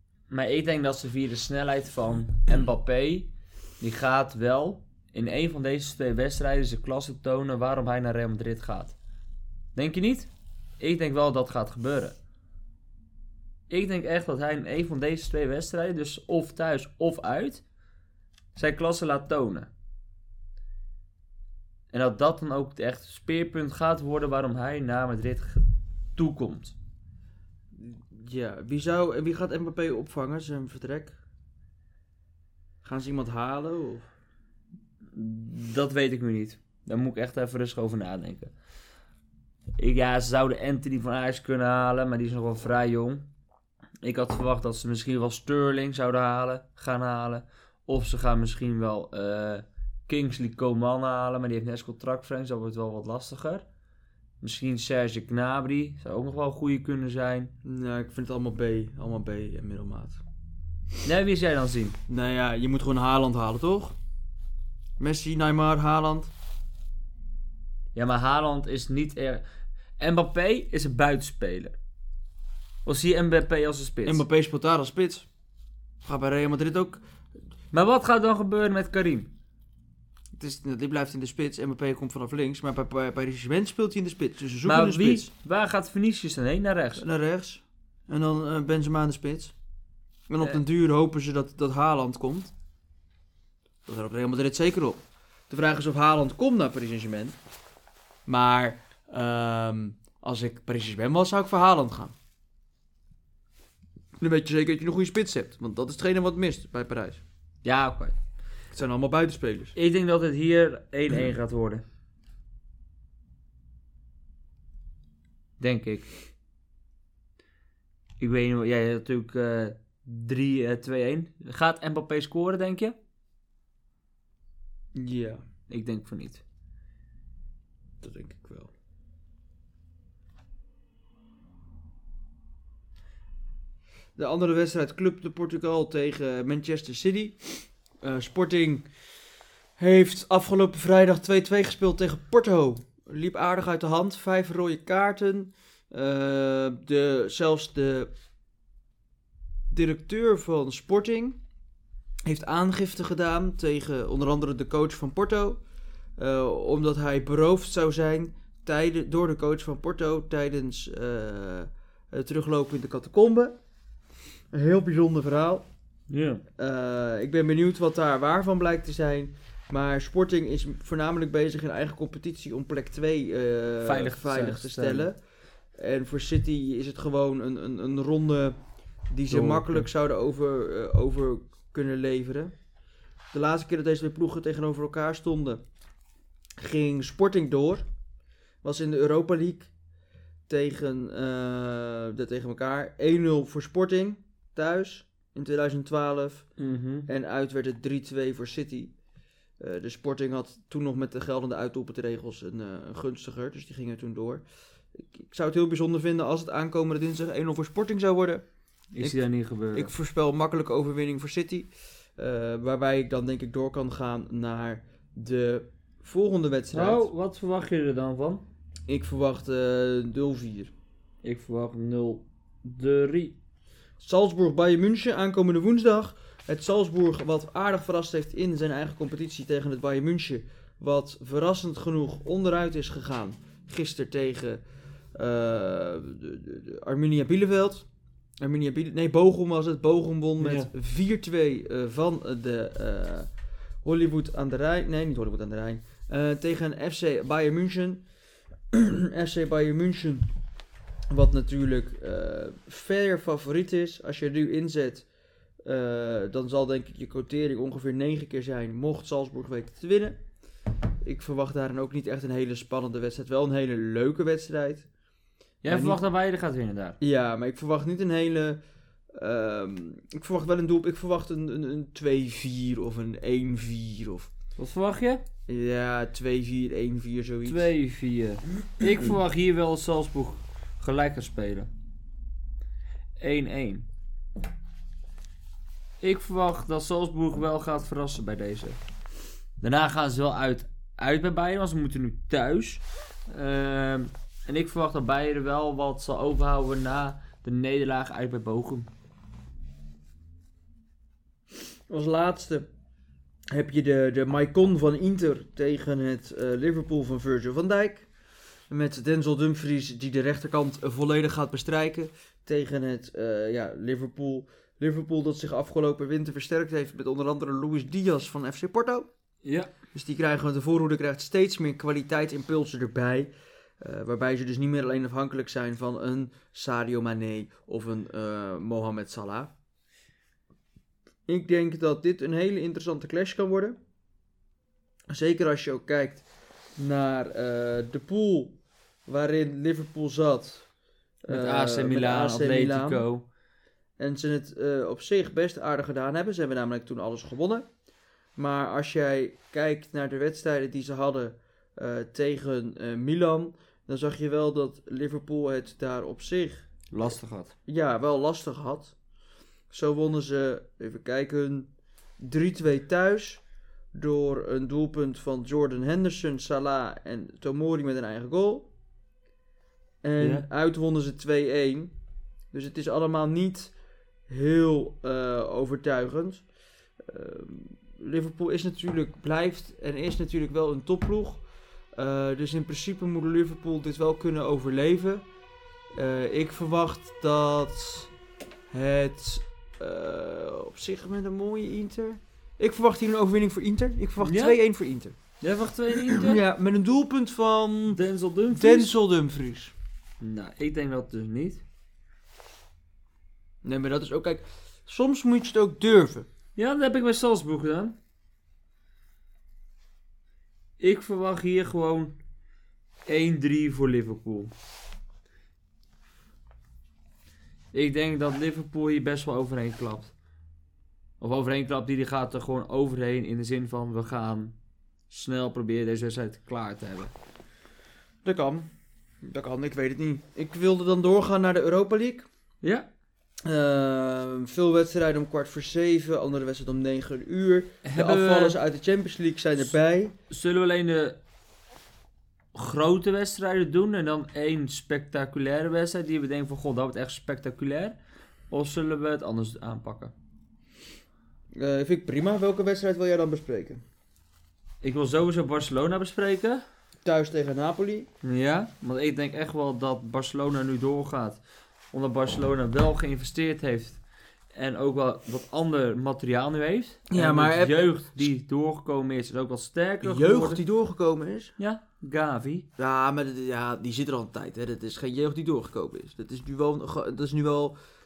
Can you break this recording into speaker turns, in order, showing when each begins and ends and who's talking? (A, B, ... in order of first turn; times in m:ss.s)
0:00.3-0:09.0 A
0:09.8-0:12.2 A
0:13.7-0:17.6 A
0:18.6-0:19.7 A
0:21.9-0:26.8 A
0:27.8-0:31.2 B
0:32.8-0:34.1 B
0:35.1-0:38.5 A
0:39.8-0:43.2 A
0:44.0-0:53.6 A
0:54.4-0:57.5 A
0:57.6-1:00.2 B
1:01.0-1:02.0 A
1:02.1-1:04.0 B
1:05.0-1:06.3 B
1:07.9-1:09.4 A
1:10.0-1:11.8 A
1:12.8-1:14.2 A
1:14.0-1:15.3 B
1:16.0-1:17.0 B
1:17.7-1:19.3 A
1:20.4-1:25.3 B
1:24.6-1:27.0 A
1:27.0-1:29.5 B
1:30.3-1:32.5 B
1:33.9-1:37.4 B
1:38.3-1:42.1 B
1:44.2-1:47.2 B
1:47.6-1:48.2 A
1:48.7-1:49.8 B
1:49.8-1:51.8 A
1:55.6-1:56.1 A
1:58.2-2:03.0 A
2:05.0-2:05.4 B
2:05.7-2:06.4 A
2:08.0-2:08.7 B
2:14.2-2:18.9 B
2:19.8-2:28.1 B
2:29.7-2:31.4 B
2:32.3-2:35.6 B
2:36.2-2:43.6 B
2:44.5-2:45.7 B
2:46.1-2:46.4 A
2:46.6-2:55.2 B
2:53.8-2:55.1 A
2:55.7-3:02.6 B
2:59.3-2:59.9 A
3:03.3-3:05.6 B
3:06.6-3:07.9 B
3:08.6-3:09.7 B
3:10.5-3:16.5 B
3:16.6-3:17.1 A
3:17.1-3:18.9 B
3:19.6-3:28.5 B
3:28.9-3:29.9 A
3:29.0-3:37.1 B
3:36.7-3:38.4 A
3:38.9-3:40.7 B
3:41.2-3:43.4 A
3:44.0-3:54.6 B
3:55.1-3:57.9 B
3:58.4-4:08.1 B
4:00.4-4:00.7 A
4:08.7-4:10.3 B
4:11.1-4:15.1 B
4:15.6-4:20.2 B
4:21.0-4:24.9 B
4:25.6-4:27.0 A
4:25.7-4:26.0 B
4:27.0-4:28.6 B
4:29.1-4:34.3 B
4:34.6-4:35.2 A
4:35.5-4:37.7 B
4:37.4-4:41.7 A
4:43.2-4:43.9 A
4:46.0-4:48.8 A
4:49.6-4:58.9 A
5:01.9-5:02.7 B
5:03.5-5:08.1 B
5:08.7-5:19.1 B
5:19.4-5:19.7 A
5:19.9-5:29.5 B
5:31.3-5:33.8 B
5:35.1-5:36.2 B
5:36.8-5:40.7 B
5:41.2-5:43.1 B
5:41.3-5:43.3 A
5:44.0-5:47.7 B
5:48.4-5:56.7 B
5:56.9-5:57.5 A
5:57.7-5:59.0 B
5:59.7-6:03.4 B
6:04.0-6:08.7 B
6:10.0-6:11.9 B
6:10.2-6:10.5 A
6:12.5-6:13.8 B
6:14.3-6:16.5 B
6:17.0-6:25.3 B
6:25.9-6:28.1 B
6:28.7-6:35.2 B
6:34.2-6:34.6 A
6:35.4-6:36.4 A
6:36.1-6:39.7 B
6:37.9-6:38.9 A
6:40.2-6:41.6 A
6:43.6-6:46.3 B
6:46.6-6:48.0 A
6:50.8-6:52.2 A
6:53.1-6:54.5 A
6:57.7-7:00.1 A
7:01.2-7:04.5 A
7:05.1-7:07.1 A
7:08.2-7:08.7 B
7:09.2-7:12.3 B
7:12.6-7:12.9 A
7:13.4-7:20.2 B
7:17.8-7:18.6 A
7:20.3-7:21.2 A
7:22.5-7:28.0 A
7:28.5-7:30.1 A
7:31.6-7:33.8 B
7:34.8-7:36.6 A
7:37.0-7:38.1 B
7:38.2-7:41.4 A
7:41.9-7:44.0 A
7:44.5-7:50.6 A
7:47.1-7:47.8 B
7:50.0-7:51.5 B
7:51.6-7:52.7 A
7:52.8-7:57.8 B